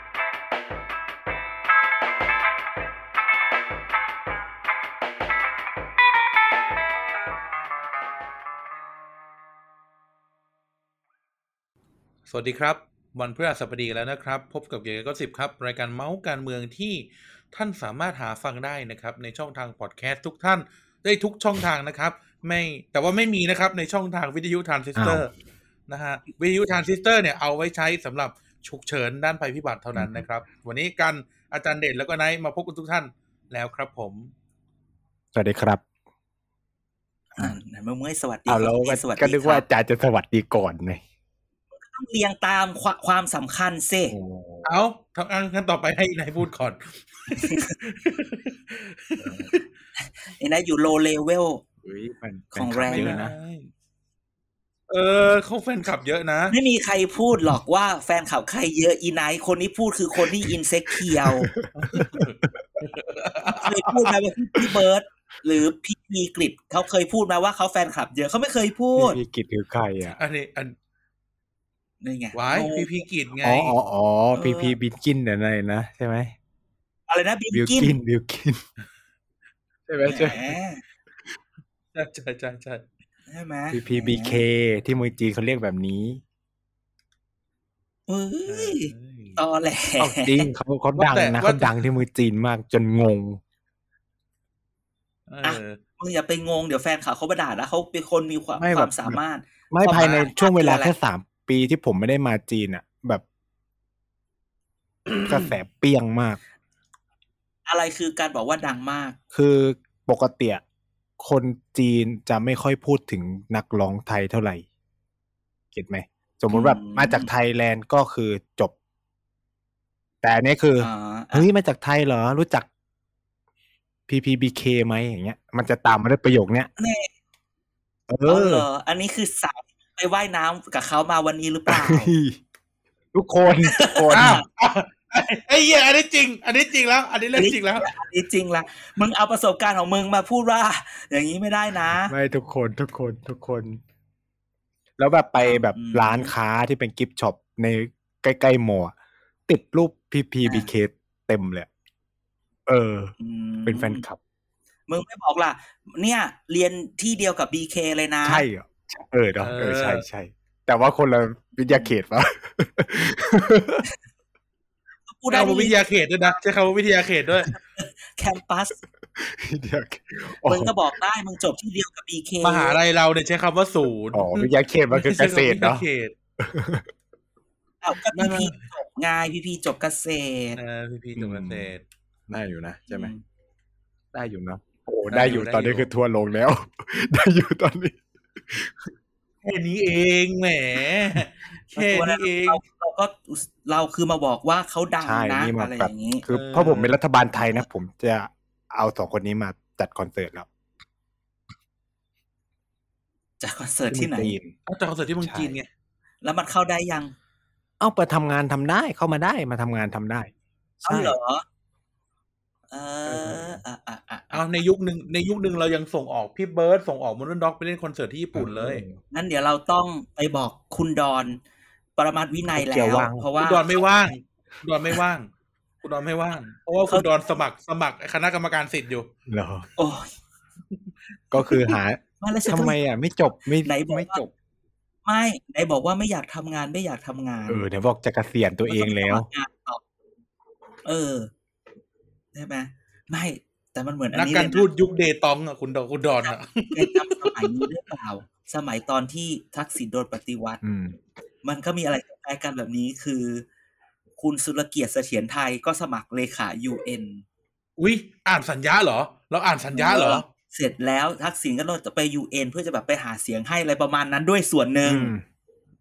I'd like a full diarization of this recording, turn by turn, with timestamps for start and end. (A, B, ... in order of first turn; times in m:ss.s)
0:12.3-0:25.3 A
0:25.0-0:25.2 B
0:25.9-0:34.3 A
0:29.9-0:30.2 B
0:35.3-0:35.8 B
0:37.4-0:39.6 C
0:38.5-0:41.0 B
0:41.8-0:44.1 C
0:44.1-0:44.6 B
0:44.6-0:49.6 A
0:47.4-0:47.7 C
0:49.2-0:49.5 B
0:50.0-0:51.6 C
0:51.8-0:53.3 B
0:52.5-0:53.2 C
0:52.9-0:53.7 A
0:54.9-0:56.6 A
0:56.5-1:01.5 C
1:01.1-1:02.5 B
1:01.7-1:04.1 A
1:03.6-1:09.2 C
1:09.0-1:10.2 B
1:10.1-1:10.7 A
1:12.0-1:12.9 C
1:12.3-1:13.8 A
1:13.4-1:16.3 B
1:14.3-1:14.8 C
1:17.1-1:18.0 C
1:17.5-1:18.6 B
1:19.9-1:20.5 B
1:20.0-1:20.8 C
1:21.9-1:22.8 A
1:23.3-1:24.4 C
1:23.7-1:26.2 B
1:28.1-1:30.5 C
1:28.5-1:29.4 A
1:30.0-1:33.4 B
1:31.0-1:31.8 A
1:35.3-1:35.8 A
1:35.4-1:40.9 C
1:38.6-1:39.2 B
1:39.7-1:43.2 B
1:40.0-1:40.3 A
1:45.2-1:46.4 B
1:47.7-1:49.2 C
1:49.3-1:50.6 B
1:51.2-1:54.6 B
1:55.7-1:58.7 B
1:56.5-1:57.3 C
2:00.2-2:02.7 B
2:00.8-2:01.5 C
2:04.1-2:06.7 B
2:06.8-2:07.1 C
2:08.1-2:08.6 B
2:08.2-2:12.1 C
2:11.7-2:12.4 B
2:13.1-2:14.4 B
2:13.6-2:14.4 C
2:14.1-2:17.9 A
2:17.3-2:22.1 C
2:22.1-2:23.8 B
2:25.0-2:28.9 B
2:25.4-2:26.3 C
2:29.5-2:31.7 B
2:30.4-2:30.7 C
2:32.7-2:33.1 B
2:33.2-2:34.0 C
2:33.6-2:34.2 B
2:34.9-2:38.5 C
2:38.2-2:43.8 B
2:39.4-2:40.0 A
2:45.1-2:46.4 C
2:45.3-2:47.5 A
2:47.5-2:48.8 C
2:49.1-2:50.7 B
2:50.4-2:52.8 C
2:52.4-2:56.1 A
2:54.1-2:55.8 B
2:56.4-2:56.8 B
2:57.8-3:00.6 C
2:58.1-2:58.6 A
3:00.6-3:01.8 A
3:01.2-3:01.7 B
3:02.3-3:03.1 B
3:02.9-3:03.2 C
3:04.1-3:08.8 B
3:05.1-3:05.9 A
3:09.4-3:12.6 A
3:11.7-3:16.2 C
3:15.0-3:20.5 B
3:16.3-3:17.0 A
3:23.4-3:24.3 C
3:23.9-3:24.5 B
3:24.7-3:25.7 A
3:25.2-3:25.5 B
3:26.2-3:27.1 C
3:27.8-3:30.3 B
3:30.8-3:31.1 B
3:30.8-3:31.4 C
3:32.7-3:34.4 C
3:33.0-3:33.6 B
3:34.3-3:38.8 A
3:38.3-3:39.0 B
3:39.1-3:41.4 C
3:42.0-3:43.7 C
3:42.5-3:43.2 B
3:43.4-3:45.3 A
3:45.8-3:49.1 A
3:49.3-3:49.7 B
3:49.8-3:50.1 C
3:51.3-3:54.3 B
3:51.3-3:52.8 C
3:53.6-3:54.2 C
3:55.0-3:57.6 C
3:57.5-3:59.3 B
3:58.6-3:59.8 C
4:00.8-4:01.3 C
4:02.3-4:04.6 C
4:04.1-4:07.6 A
4:06.2-4:10.6 C
4:10.6-4:11.0 B
4:11.4-4:13.4 C
4:14.2-4:17.2 C
4:17.8-4:20.2 A
4:19.7-4:25.1 C
4:24.8-4:25.2 B